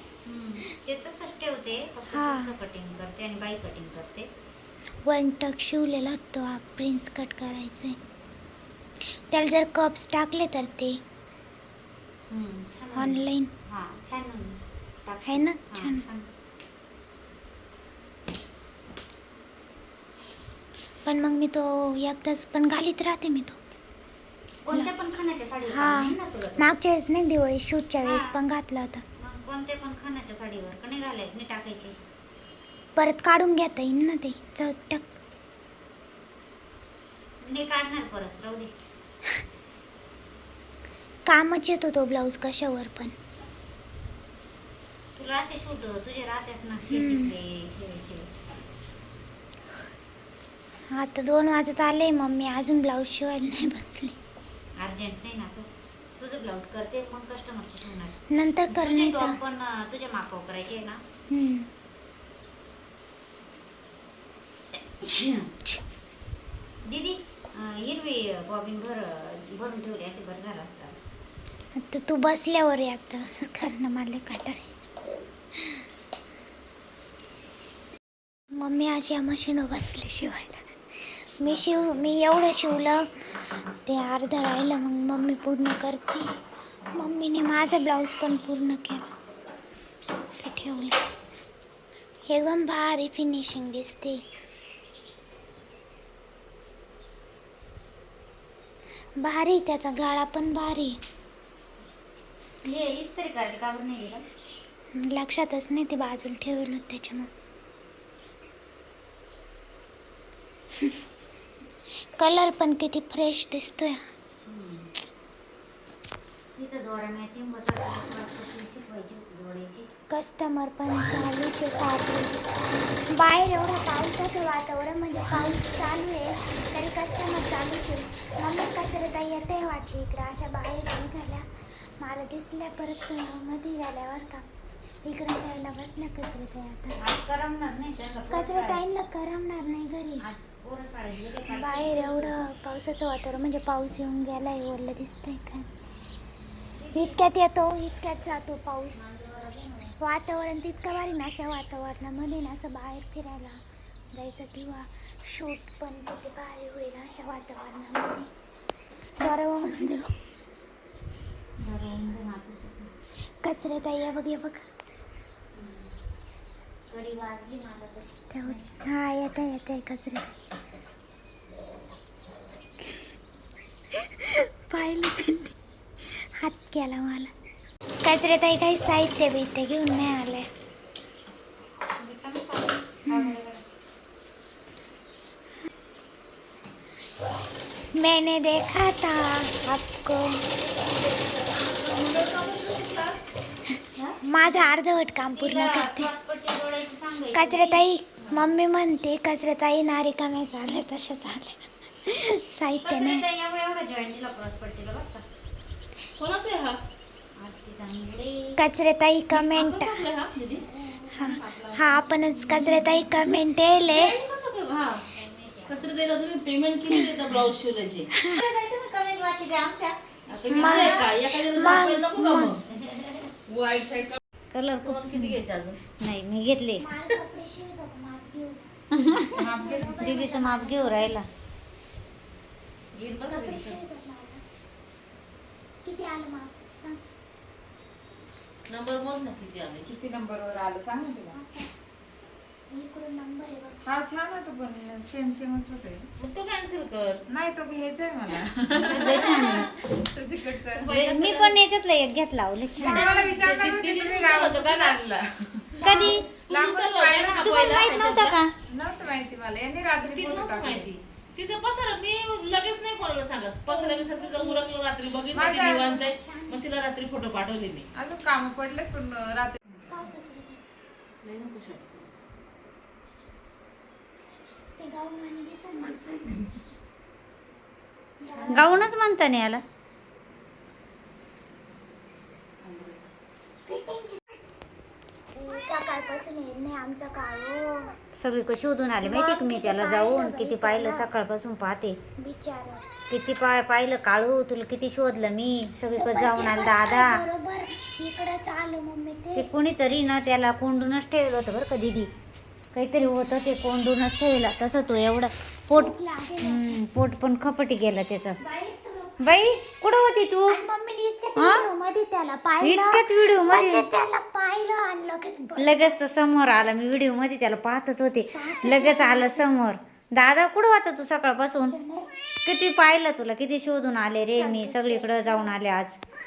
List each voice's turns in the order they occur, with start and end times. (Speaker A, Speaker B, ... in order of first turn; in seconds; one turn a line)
Speaker A: 0.2-4.3
Speaker B: 2.1-2.5
Speaker B: 5.1-8.0
Speaker B: 9.3-11.0
Speaker A: 12.3-16.3
Speaker B: 12.9-13.5
Speaker B: 15.3-16.1
Speaker B: 21.1-23.6
Speaker A: 24.6-26.7
Speaker B: 25.7-29.0
Speaker A: 28.0-28.4
Speaker A: 29.2-32.0
Speaker B: 33.0-35.1
Speaker A: 37.4-38.7
Speaker B: 41.3-43.1
Speaker A: 45.2-48.3
Speaker B: 46.9-47.3
Speaker B: 50.9-54.2
Speaker A: 54.8-55.7
Speaker A: 56.2-58.2
Speaker B: 58.3-59.4
Speaker A: 58.7-61.0
Speaker B: 61.3-61.7
Speaker A: 64.7-65.5
Speaker A: 66.9-71.0
Speaker B: 71.8-74.7
Speaker B: 75.5-75.8
Speaker B: 78.5-86.3
Speaker A: 81.5-81.9
Speaker B: 86.9-89.1
Speaker B: 90.4-91.0
Speaker B: 92.3-94.2
Speaker B: 99.2-101.0
Speaker A: 102.6-104.2
Speaker B: 105.0-107.3
Speaker B: 110.8-111.0
Speaker B: 112.2-114.0
Speaker A: 114.5-114.9
Speaker A: 116.6-119.9
Speaker B: 120.1-122.5
Speaker B: 123.1-134.5
Speaker B: 135.0-137.1
Speaker A: 137.0-138.8
Speaker B: 138.3-140.2
Speaker A: 140.2-142.5
Speaker B: 141.5-145.7
Speaker A: 146.8-147.3
Speaker B: 146.9-149.1
Speaker A: 148.9-150.0
Speaker B: 150.0-153.6
Speaker B: 154.1-158.3
Speaker B: 159.2-160.2
Speaker A: 161.6-162.9
Speaker B: 163.4-164.7
Speaker A: 165.5-165.9
Speaker A: 166.9-168.7
Speaker B: 168.3-170.3
Speaker B: 173.9-177.3
Speaker B: 178.0-180.5
Speaker A: 182.0-183.7
Speaker B: 183.1-183.4
Speaker B: 187.9-190.4
Speaker C: 190.7-193.2
Speaker B: 194.2-196.1
Speaker A: 195.3-198.5
Speaker B: 197.3-203.2
Speaker A: 202.8-205.2
Speaker C: 206.2-206.8
Speaker A: 207.4-208.6
Speaker B: 208.6-210.0
Speaker C: 209.3-210.7
Speaker D: 210.9-212.3
Speaker B: 211.1-214.2
Speaker C: 212.5-212.8
Speaker C: 213.8-215.1
Speaker A: 215.1-215.9
Speaker C: 215.7-218.1
Speaker B: 218.1-218.4
Speaker A: 218.3-221.1
Speaker C: 220.3-222.6
Speaker B: 220.5-222.6
Speaker A: 222.4-223.3
Speaker C: 223.5-224.2
Speaker A: 224.5-225.4
Speaker C: 224.8-225.8
Speaker A: 226.0-226.9
Speaker B: 226.8-231.2
Speaker A: 228.9-231.3
Speaker D: 229.3-230.2
Speaker C: 232.9-233.8
Speaker B: 233.3-234.4
Speaker B: 235.8-237.0
Speaker C: 238.7-239.9
Speaker D: 239.9-241.4
Speaker B: 241.3-241.7
Speaker B: 242.7-243.8
Speaker D: 243.8-246.1
Speaker C: 246.2-247.3
Speaker D: 247.3-250.9
Speaker C: 248.8-249.8
Speaker A: 249.0-249.7
Speaker C: 250.7-251.6
Speaker A: 250.9-253.1
Speaker D: 252.8-257.6
Speaker C: 252.8-255.2
Speaker C: 255.8-258.4
Speaker A: 255.8-256.3
Speaker B: 255.8-256.1
Speaker A: 257.4-258.5
Speaker D: 258.7-260.9
Speaker C: 260.0-267.9
Speaker B: 263.7-264.7
Speaker D: 265.3-266.1
Speaker B: 265.8-266.6
Speaker D: 267.9-269.8
Speaker B: 269.9-270.6
Speaker C: 271.2-272.1
Speaker B: 274.8-276.6
Speaker B: 278.2-278.9
Speaker A: 278.5-279.6
Speaker D: 282.6-283.0
Speaker B: 283.6-284.4
Speaker B: 285.3-288.0
Speaker A: 288.1-292.0
Speaker B: 289.0-291.1
Speaker B: 292.2-292.9
Speaker A: 293.1-297.2
Speaker B: 295.9-299.5
Speaker A: 299.4-302.1
Speaker A: 302.7-308.4
Speaker B: 305.7-306.8
Speaker B: 308.4-309.5
Speaker A: 309.2-310.6
Speaker B: 310.5-316.0
Speaker A: 311.4-311.6
Speaker A: 312.6-313.9
Speaker A: 315.6-321.8
Speaker B: 318.3-319.5
Speaker B: 321.7-322.1
Speaker A: 322.4-326.0
Speaker B: 324.4-325.6